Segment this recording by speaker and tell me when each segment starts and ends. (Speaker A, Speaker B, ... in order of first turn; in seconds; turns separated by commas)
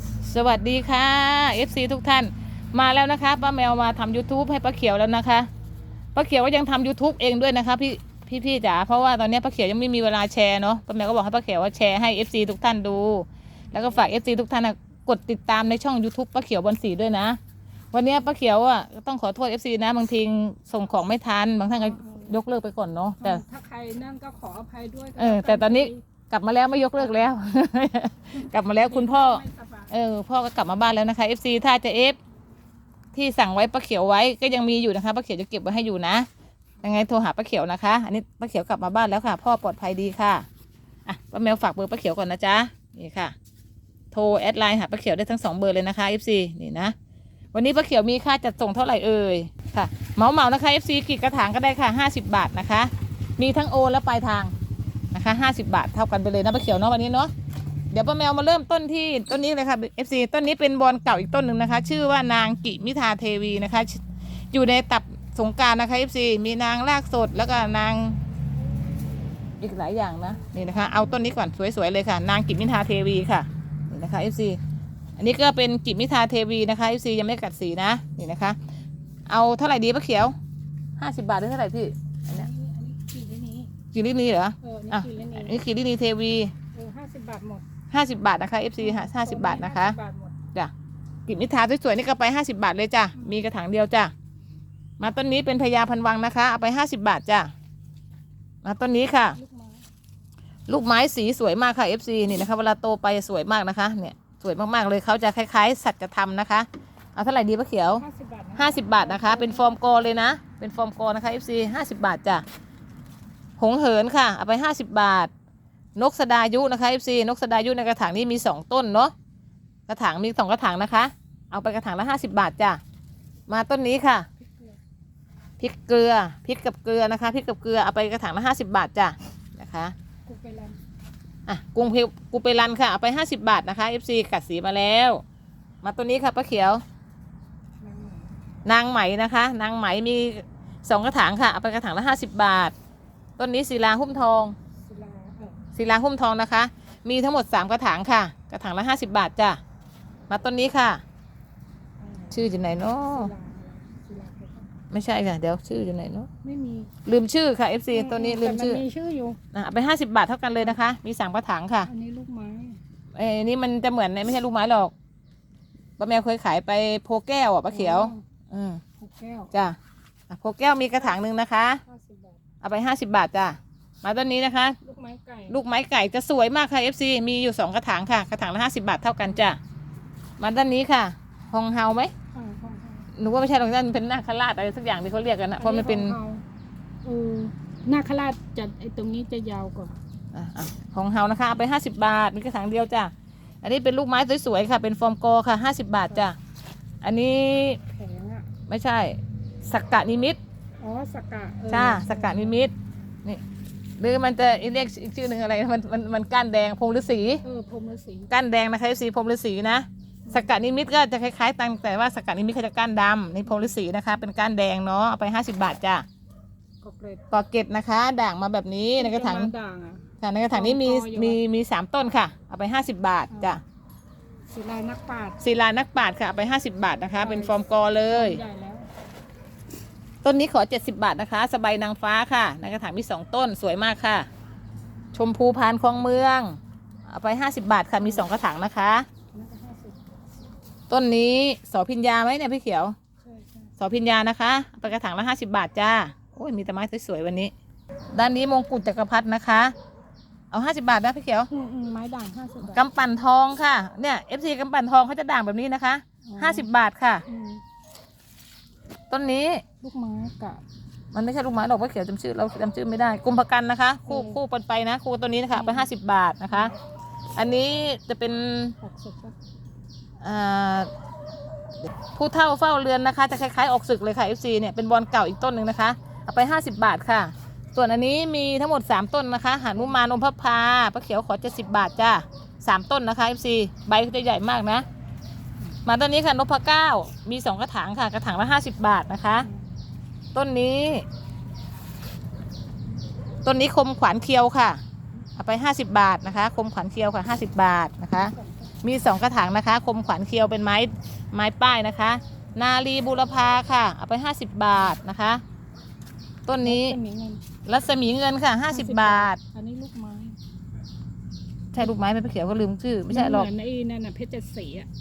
Speaker A: 0.2-5.5, Speaker A: 6.2-17.4, Speaker B: 13.7-14.0, Speaker A: 17.9-23.4, Speaker B: 21.8-22.4, Speaker B: 23.2-26.0, Speaker A: 25.2-32.2, Speaker B: 28.9-29.9, Speaker A: 33.1-36.3, Speaker A: 36.8-40.5, Speaker A: 41.1-43.4, Speaker A: 44.1-47.0, Speaker A: 47.5-54.5, Speaker A: 55.1-57.3, Speaker A: 57.9-68.2, Speaker A: 69.6-74.6, Speaker A: 75.2-78.6, Speaker A: 79.3-80.3, Speaker A: 81.0-82.5, Speaker B: 82.3-83.7, Speaker A: 83.9-86.5, Speaker B: 84.6-85.6, Speaker B: 86.7-87.7, Speaker A: 87.9-90.0, Speaker B: 88.8-90.4, Speaker A: 91.3-94.1, Speaker A: 95.0-97.5, Speaker A: 98.6-99.4, Speaker B: 99.3-99.8, Speaker A: 100.7-108.0, Speaker B: 107.9-110.2, Speaker A: 108.6-112.4, Speaker A: 113.6-115.3, Speaker A: 116.0-119.1, Speaker A: 119.9-122.8, Speaker A: 123.5-124.3, Speaker B: 124.4-124.8, Speaker A: 125.6-129.9, Speaker B: 130.3-130.8, Speaker A: 131.5-135.2, Speaker A: 135.8-136.8, Speaker B: 137.8-138.3, Speaker A: 138.7-142.7, Speaker A: 143.4-144.6, Speaker B: 144.8-145.6, Speaker A: 145.8-149.6, Speaker A: 150.3-151.0, Speaker B: 152.0-154.7, Speaker A: 152.3-153.3, Speaker A: 154.9-156.3, Speaker B: 156.4-156.9, Speaker A: 157.1-158.8, Speaker B: 157.9-159.4, Speaker A: 159.5-161.9, Speaker B: 161.8-162.8, Speaker A: 163.2-164.9, Speaker A: 166.0-168.8, Speaker B: 167.7-168.2, Speaker B: 169.0-169.5, Speaker A: 170.3-171.8, Speaker B: 171.0-172.4, Speaker A: 172.6-174.8, Speaker B: 174.8-175.6, Speaker A: 175.5-179.6, Speaker A: 180.4-182.1, Speaker B: 182.3-183.1, Speaker A: 183.2-186.2, Speaker B: 185.6-186.4, Speaker B: 187.0-190.0, Speaker A: 190.3-196.4, Speaker A: 197.0-197.8, Speaker B: 197.9-198.5, Speaker A: 198.7-200.4, Speaker B: 200.8-202.7, Speaker A: 201.7-202.7, Speaker A: 204.0-207.4, Speaker B: 207.4-208.3, Speaker A: 208.3-216.1, Speaker B: 210.3-210.5, Speaker B: 213.5-213.8, Speaker B: 216.8-217.2, Speaker A: 217.3-219.5, Speaker B: 219.0-221.4, Speaker A: 220.2-223.6, Speaker B: 223.3-223.6, Speaker B: 224.5-225.4, Speaker A: 225.4-228.4, Speaker B: 227.2-228.9, Speaker A: 230.2-234.3, Speaker A: 235.1-239.1, Speaker B: 238.0-238.3, Speaker B: 239.3-240.1, Speaker A: 240.9-243.0, Speaker B: 243.2-243.7, Speaker A: 243.8-247.5, Speaker A: 248.1-249.7, Speaker A: 250.5-251.5, Speaker B: 251.5-252.8, Speaker A: 252.6-257.2, Speaker B: 256.2-256.7, Speaker B: 257.3-257.6, Speaker A: 259.1-259.6, Speaker B: 259.8-260.6, Speaker A: 261.1-266.7, Speaker B: 264.1-264.4, Speaker B: 265.5-265.9, Speaker B: 266.5-266.8, Speaker A: 267.4-268.8, Speaker B: 268.8-269.4, Speaker A: 270.2-270.9, Speaker A: 272.1-284.9, Speaker A: 285.9-289.5, Speaker B: 289.4-289.7, Speaker A: 290.4-291.1, Speaker A: 293.4-294.8, Speaker A: 295.4-305.4, Speaker B: 298.1-298.8, Speaker A: 306.5-307.0, Speaker B: 306.6-307.4, Speaker A: 307.6-309.4, Speaker B: 308.7-310.4, Speaker A: 311.7-313.5, Speaker B: 313.1-314.9